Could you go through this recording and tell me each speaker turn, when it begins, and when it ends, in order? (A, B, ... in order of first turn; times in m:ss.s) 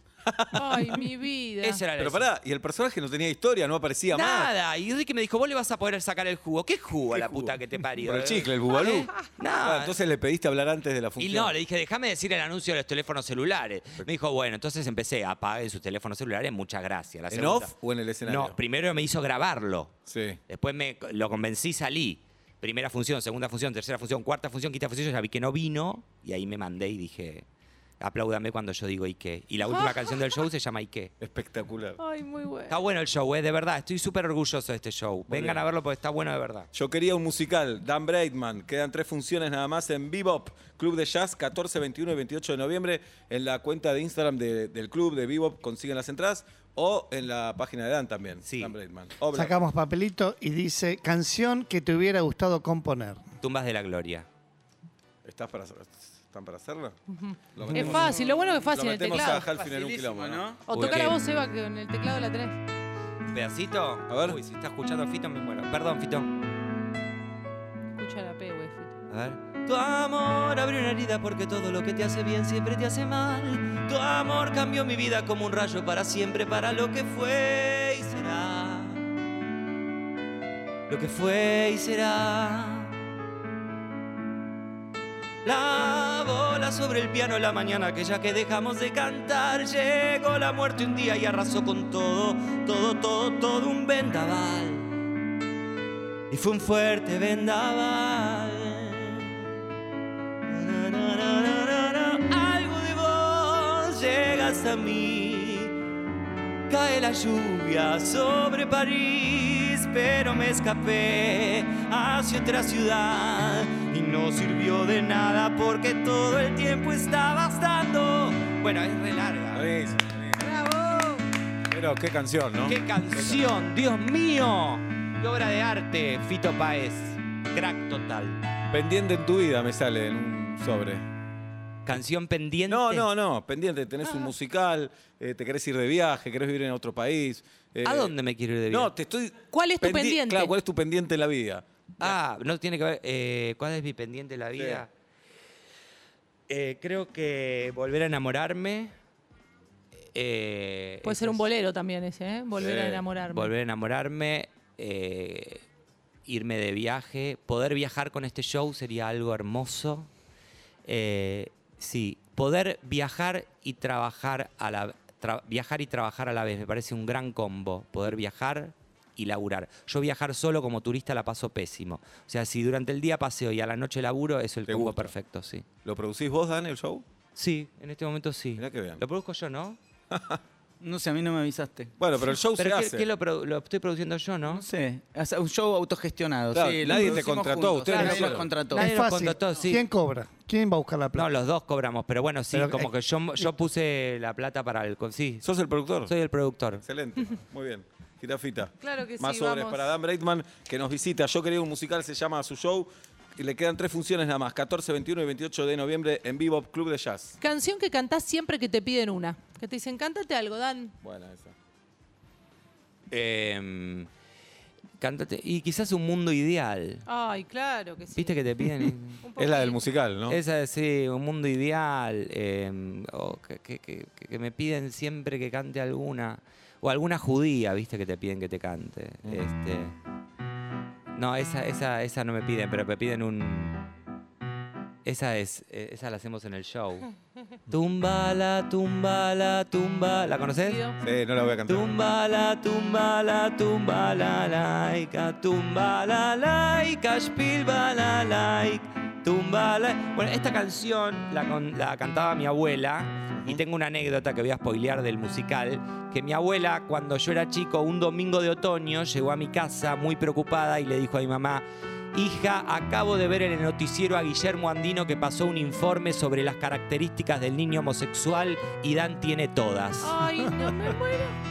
0:00.3-0:01.1 A
0:00.5-0:01.8 B
0:01.6-0:02.3 C
0:02.0-0:04.5 A
0:04.1-0:10.0 C
0:07.1-0:11.6 A
0:11.2-0:20.0 C
0:17.3-0:18.6 A
0:20.1-0:20.4 A
0:20.5-0:27.5 C
0:28.0-0:31.1 C
0:29.6-0:30.4 B
0:31.2-0:32.0 A
0:32.0-0:32.8 B
0:32.7-0:36.7 C
0:35.3-0:35.6 A
0:36.7-0:49.6 A
0:48.4-0:48.8 C
0:49.3-0:53.2 D
0:53.4-0:54.3 C
0:55.2-0:57.0 A
0:57.1-0:59.5 B
0:57.6-1:01.2 A
0:57.9-0:58.3 E
0:59.1-1:00.6 E
1:00.7-1:02.6 B
1:00.7-1:01.2 C
1:03.3-1:06.3 C
1:04.1-1:04.4 A
1:08.0-1:08.9 B
1:09.1-1:19.0 C
1:20.9-1:23.0 C
1:25.4-1:35.0 C
1:36.3-1:39.4 C
1:40.5-1:45.8 C
1:46.7-1:59.7 C
1:59.5-2:00.5 A
2:00.4-2:01.2 B
2:01.7-2:03.5 A
2:02.7-2:08.4 C
2:08.7-2:11.0 A
2:11.9-2:13.1 C
2:12.7-2:18.2 A
2:17.8-2:18.9 C
2:18.7-2:22.2 A
2:19.5-2:20.5 B
2:22.0-2:24.9 C
2:24.6-2:24.8 A
2:26.5-2:28.9 C
2:30.1-2:31.4 C
2:31.0-2:33.5 B
2:32.6-2:33.0 A
2:33.3-2:35.6 C
2:36.3-2:40.1 C
2:40.9-2:55.7 C
2:54.7-2:55.1 A
2:55.8-2:57.0 A
2:57.4-2:59.8 C
2:58.6-2:59.0 A
3:00.1-3:00.4 A
3:00.8-3:01.9 E
3:02.0-3:03.1 A
3:02.5-3:04.6 C
3:04.5-3:08.9 E
3:06.5-3:08.5 A
3:07.9-3:09.9 C
3:08.7-3:11.4 D
3:11.1-3:15.5 C
3:12.5-3:12.9 D
3:15.4-3:16.1 A
3:16.0-3:16.8 C
3:16.8-3:27.4 A
3:18.8-3:19.9 B
3:27.4-3:30.9 B
3:31.0-3:31.6 A
3:33.1-3:34.1 C
3:35.0-3:37.0 C
3:37.1-3:38.4 B
3:38.2-3:39.2 C
3:39.2-3:39.8 B
3:39.4-3:40.4 A
3:40.3-3:50.0 C
3:51.1-3:53.8 C
3:55.0-3:57.1 C
3:57.7-4:00.8 C
4:00.6-4:01.0 B
4:01.0-4:02.0 A
4:01.7-4:30.2 C
4:13.3-4:13.6 A
4:30.0-4:31.4 B